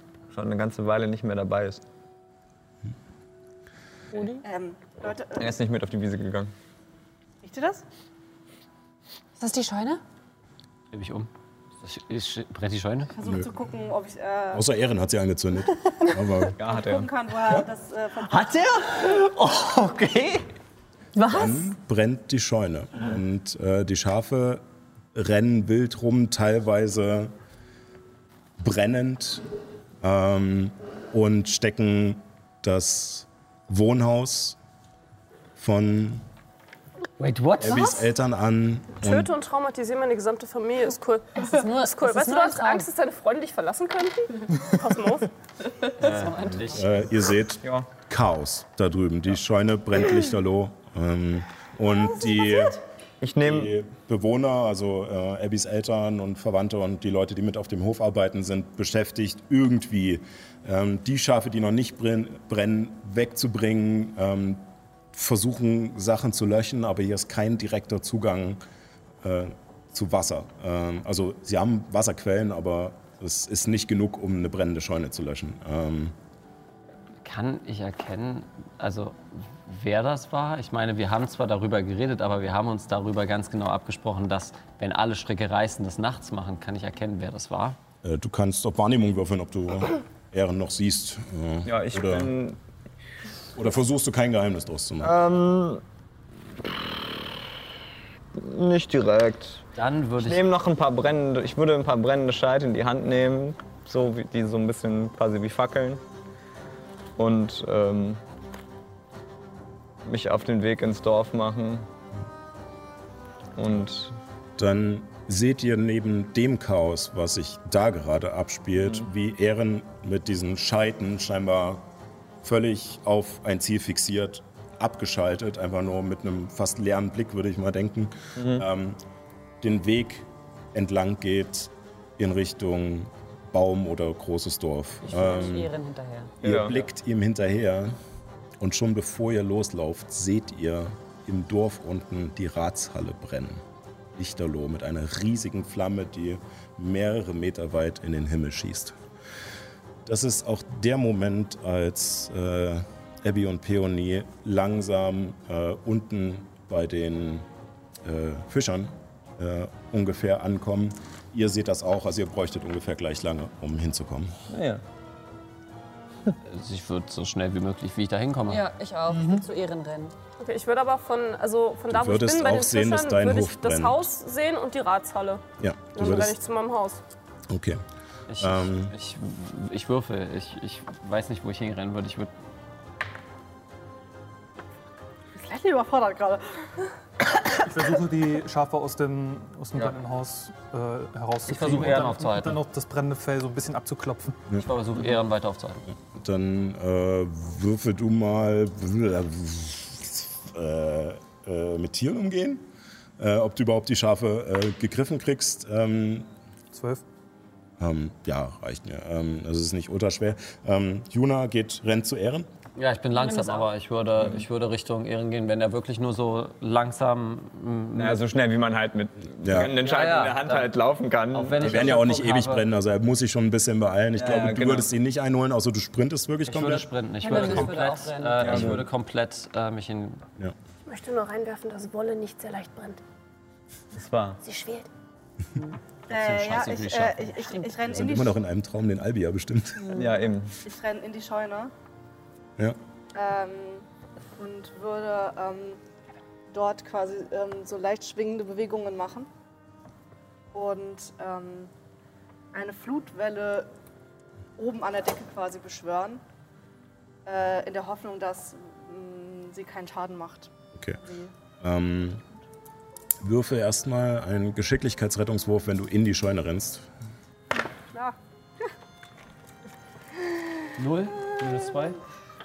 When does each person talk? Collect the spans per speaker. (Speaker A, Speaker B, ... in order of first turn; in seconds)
Speaker A: 0.3-1.8, 5.3-6.5, 16.6-17.1, 47.6-47.9, 53.2-53.7, 91.7-92.6, 95.0-95.8, 98.3-99.7, 100.2-106.0, 107.2-108.2, 110.0-111.9, 113.5-114.2, 118.8-119.1, 128.4-128.6, 136.4-136.8, 164.5-164.8, 217.9-221.9, 224.1-224.9, 233.9-234.4, 239.9-240.6
Speaker B: 4.2-4.4, 9.4-10.0, 41.3-42.9, 46.0-47.0, 135.1-136.3, 168.5-170.1, 213.1-213.7, 227.2-228.6, 234.4-234.8
Speaker C: 4.4-5.5, 7.4-7.8, 13.1-14.6, 16.4-18.5, 185.3-186.9, 236.1-238.3, 240.6-241.7, 243.1-243.8, 244.4-245.8, 246.5-249.3, 250.5-251.7, 252.5-253.7, 254.6-256.2, 257.2-261.3, 271.3-271.6
Speaker D: 10.9-11.3, 11.8-13.1, 18.3-20.4, 37.2-37.8, 46.0-46.9, 77.2-87.8, 99.8-100.4, 166.4-168.6, 178.3-182.3, 191.4-192.6, 194.6-195.8, 212.7-218.2, 219.5-220.7, 221.3-222.6, 226.5-230.2, 236.1-237.3, 270.8-272.0
Speaker E: 13.2-13.5, 14.5-16.5, 21.3-27.3, 28.6-29.4, 30.0-34.6, 35.5-36.2, 37.6-39.3, 46.6-52.8, 53.4-68.6, 69.2-76.1, 88.0-92.3, 93.5-95.1, 114.6-121.8, 122.4-129.0, 129.6-135.7, 136.4-138.0, 138.6-143.6, 144.1-149.0, 150.0-157.5, 158.0-164.3, 169.1-169.4, 171.9-174.0, 175.6-176.3, 177.5-177.8, 178.4-178.9, 196.1-202.7, 203.2-206.3, 207.8-212.5, 219.4-219.7, 221.6-226.9, 227.4-227.7, 228.4-228.9, 237.8-240.0, 260.7-261.0, 261.6-262.2, 263.2-266.9
Speaker F: 39.0-45.3, 170.4-175.4, 175.9-177.0, 230.8-233.0
Speaker G: 187.7-194.5, 206.7-207.0